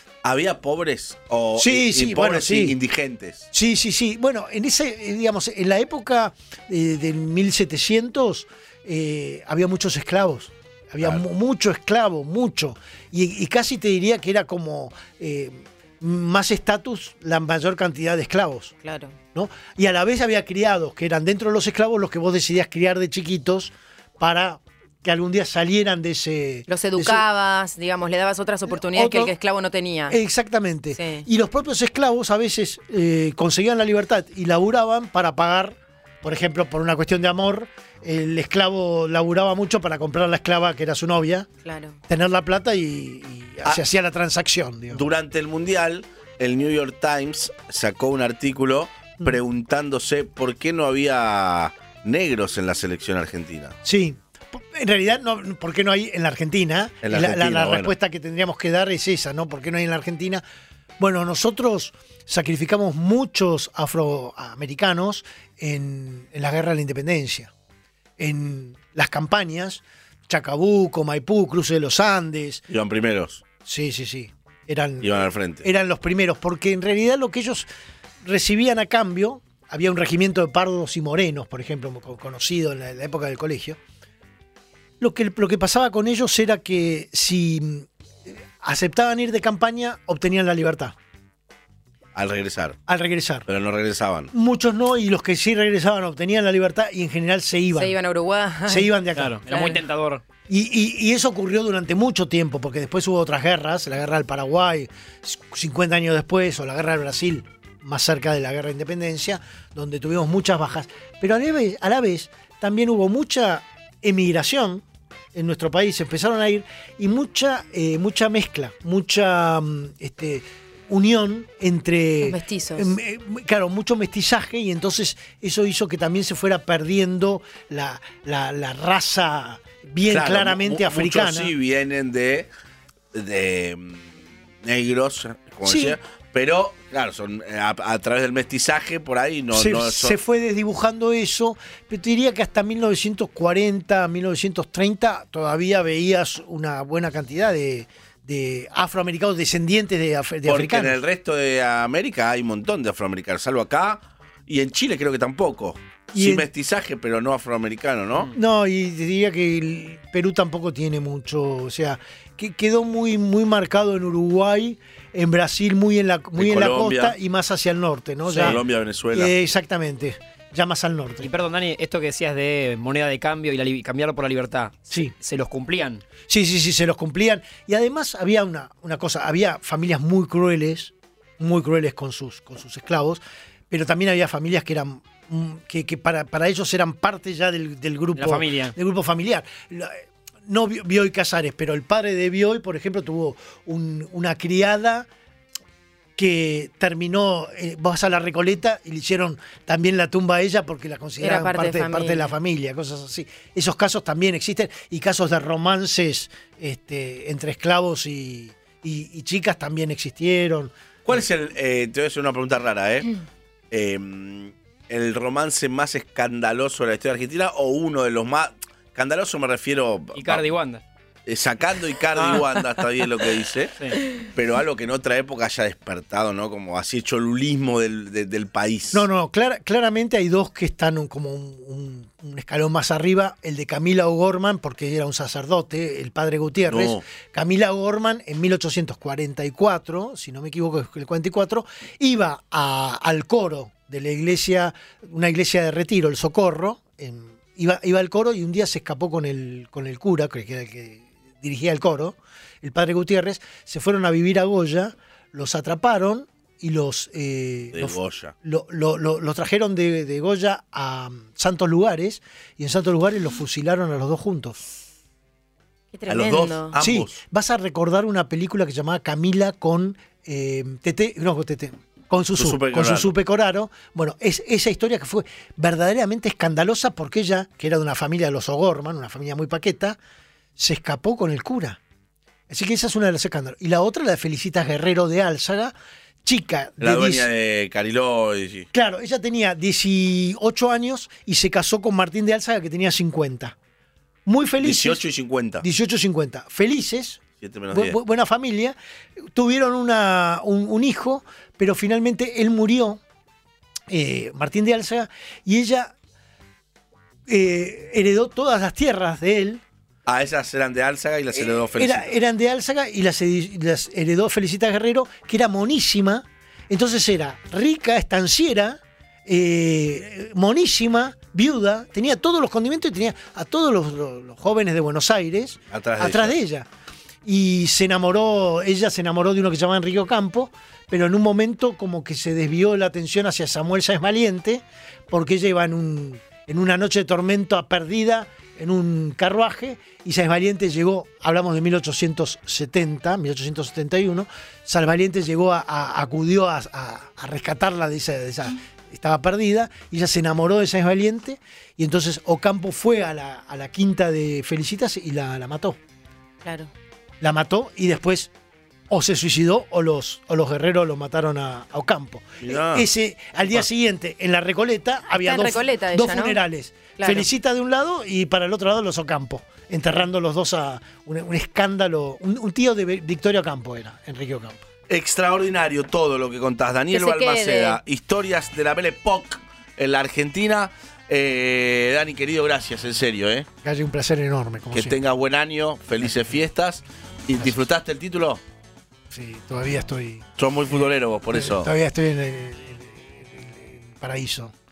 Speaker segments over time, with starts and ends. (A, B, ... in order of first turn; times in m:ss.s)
0:00.2-0:03.5 A
0:01.6-0:02.8 B
0:03.5-0:18.7 B
0:18.8-0:19.2 C
0:19.3-0:27.2 B
0:26.7-0:30.2 C
0:28.7-0:29.3 B
0:30.1-0:41.5 B
0:31.0-0:31.2 C
0:41.6-0:42.0 C
0:42.1-0:45.0 B
0:44.9-0:53.8 A
0:53.8-1:00.4 B
0:57.0-0:58.0 A
1:01.0-1:07.5 B
1:08.2-1:12.6 B
1:12.7-1:13.4 A
1:13.6-1:17.7 B
1:15.0-1:15.7 A
1:18.2-1:23.8 B
1:25.0-1:31.0 B
1:32.2-1:32.8 A
1:32.9-1:33.5 B
1:33.5-1:34.3 A
1:34.3-1:38.0 B
1:37.7-1:38.9 C
1:38.7-1:39.4 B
1:39.2-1:40.2 D
1:39.5-1:39.8 C
1:40.5-2:11.5 B
2:02.2-2:02.9 C
2:10.1-2:12.5 A
2:13.1-2:20.2 A
2:15.6-2:16.0 B
2:19.5-2:31.0 B
2:30.4-2:38.3 A
2:36.1-2:36.5 B
2:38.3-2:48.6 B
2:46.4-2:47.2 A
2:48.3-2:48.6 D
2:48.3-2:49.3 A
2:49.1-2:51.3 B
2:51.2-2:56.0 D
2:56.3-3:15.1 B
3:08.2-3:08.8 D
3:16.2-3:30.7 B
3:21.2-3:22.3 C
3:31.0-3:33.1 A
3:33.7-3:40.4 A
3:40.2-3:40.8 D
3:41.3-3:49.1 A
3:42.2-3:42.4 D
3:48.9-4:24.7 B
3:56.7-3:57.0 A
4:17.7-4:18.3 A
4:25.9-4:26.8 C
4:26.1-4:27.2 A
4:26.8-4:40.0 B
4:32.4-4:33.1 A
4:40.6-4:41.8 B
4:42.5-4:47.3 B
4:46.8-4:48.7 A
4:48.7-4:53.6 B
4:54.3-4:55.0 B
4:54.6-4:55.6 A
4:55.6-5:03.0 B
4:57.4-4:58.0 A
5:03.9-5:05.9 B
5:07.3-5:09.6 B
5:10.1-5:12.1 A
5:11.4-5:26.7 B
5:25.7-5:26.4 A
5:27.2-5:55.8 B
5:56.4-5:56.7 C
5:57.2-5:58.3 B
5:58.9-6:14.6 B
6:02.4-6:02.9 A
6:05.2-6:06.4 C
6:07.0-6:07.3 C
6:14.9-6:23.5 A
6:16.9-6:17.8 C
6:23.6-6:25.0 B
6:24.7-6:28.4 A
6:29.1-6:34.5 B
6:30.4-6:31.7 A